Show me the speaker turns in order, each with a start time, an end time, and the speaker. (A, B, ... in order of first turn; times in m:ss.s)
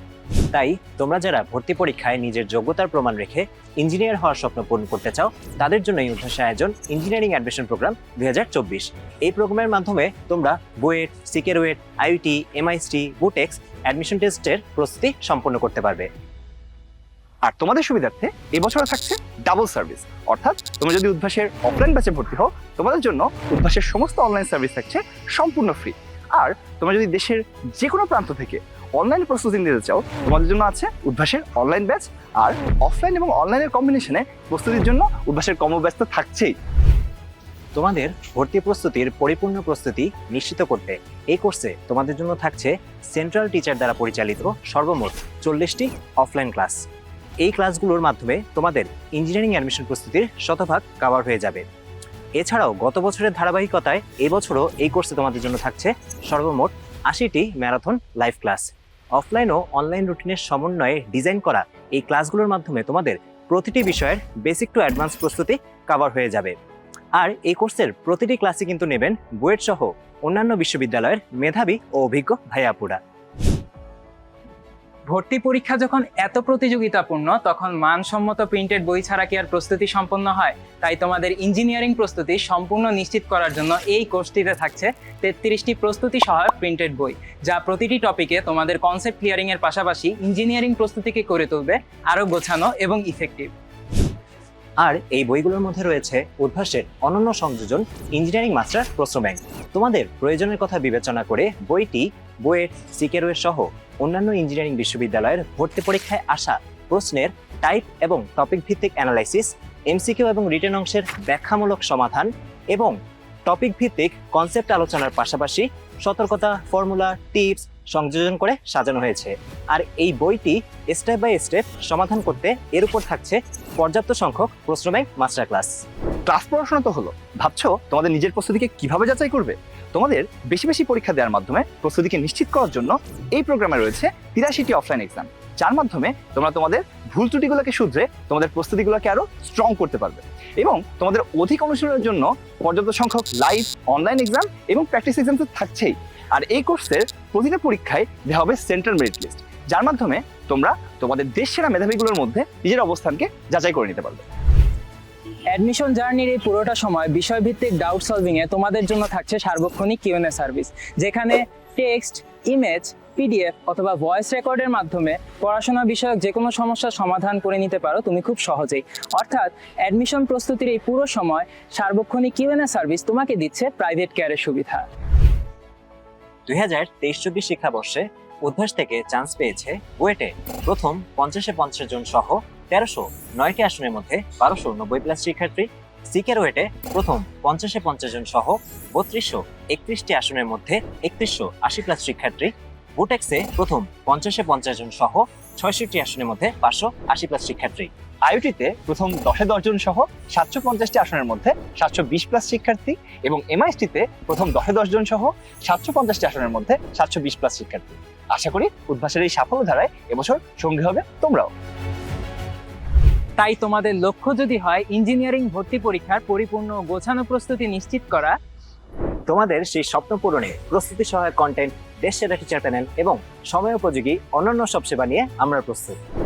0:00.5-0:16.1 A
0:17.5-0:36.5 B
0:37.8-0:46.8 A
0:47.4-0:51.6 A
0:52.4-1:06.6 A
1:07.2-1:13.0 A
1:15.1-1:33.5 C
1:34.8-2:05.7 A
2:06.3-2:34.2 B
2:35.5-2:54.8 C
2:56.5-3:17.9 A
3:18.3-3:31.5 B
3:33.4-3:38.4 C
3:39.3-3:46.0 A